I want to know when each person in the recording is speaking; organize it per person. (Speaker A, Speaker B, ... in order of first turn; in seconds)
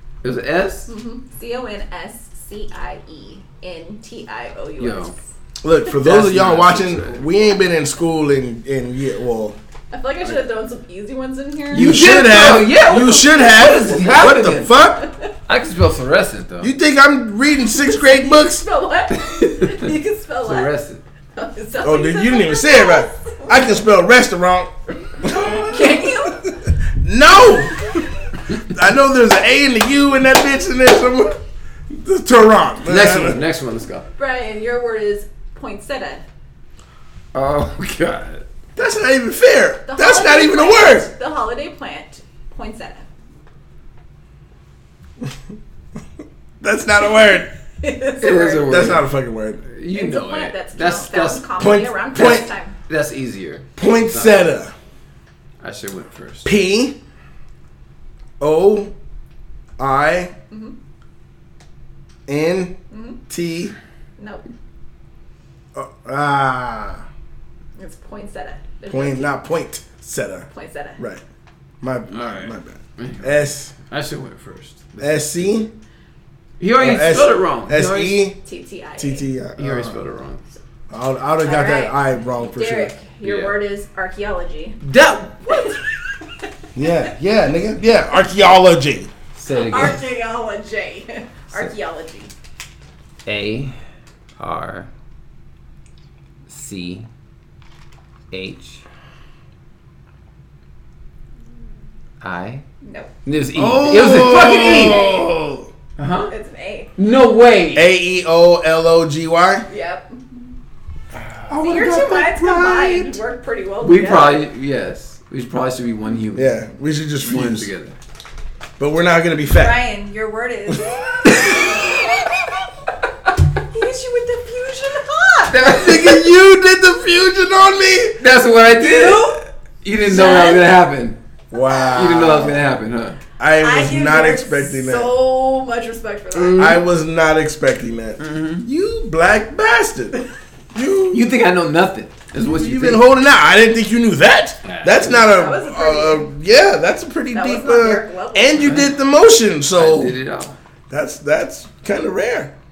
Speaker A: 0.2-0.9, 4.8-5.1, 5.9-7.2, 11.7-14.8, 15.5-16.7, 19.3-19.9, 20.4-21.0, 32.9-34.1, 37.3-38.5, 48.2-49.1, 49.6-51.5, 52.1-54.5, 55.6-56.5, 72.1-75.5, 76.6-78.2, 79.6-80.4, 83.2-83.6, 84.8-85.8, 89.3-90.0, 93.2-93.8, 94.4-94.9, 96.5-97.1, 98.3-98.8, 102.2-102.6, 103.2-105.1, 106.0-106.3, 107.0-107.9, 111.2-111.5, 113.8-116.6, 117.2-118.0, 125.5-126.3, 128.2-131.2, 131.9-133.2, 136.3-136.8, 138.2-138.7, 141.1-143.0, 144.6-145.3, 148.6-148.9, 149.7-150.6
Speaker B: 0.9-5.2, 9.9-12.3, 15.0-15.3, 17.7-20.7, 21.3-23.7, 25.2-26.5, 34.1-36.2, 39.9-43.1, 47.8-49.0, 49.9-52.8, 62.9-63.2, 64.2-64.4, 67.8-69.3, 70.5-71.0, 78.4-79.3, 81.4-84.8, 85.5-85.8, 89.5-92.3, 102.8-103.1, 104.7-105.3, 106.3-106.9, 109.7-110.5, 111.6-114.4, 119.5-122.4, 123.6-125.7, 128.8-129.4, 130.0-130.7, 133.6-136.8, 145.3-146.3, 147.3-148.8
Speaker C: 5.6-9.6, 11.7-15.1, 16.6-18.6, 21.8-26.3, 26.9-33.4, 38.8-41.1, 46.6-47.5, 48.7-49.6, 51.6-52.5, 53.8-54.7, 56.4-57.0, 58.4-58.9, 59.8-60.3, 62.3-62.8, 63.3-63.7, 65.7-67.0, 68.9-71.2, 71.8-73.7, 75.0-75.7, 76.8-78.4, 79.0-80.0, 80.9-82.9, 86.7-89.1, 103.5-105.7, 107.7-109.6, 111.5-113.2, 116.3-117.7, 118.8-119.8, 125.7-128.2, 131.5-132.6, 133.4-135.1, 136.5-140.2, 140.7-141.2, 142.4-150.2, 150.9-152.5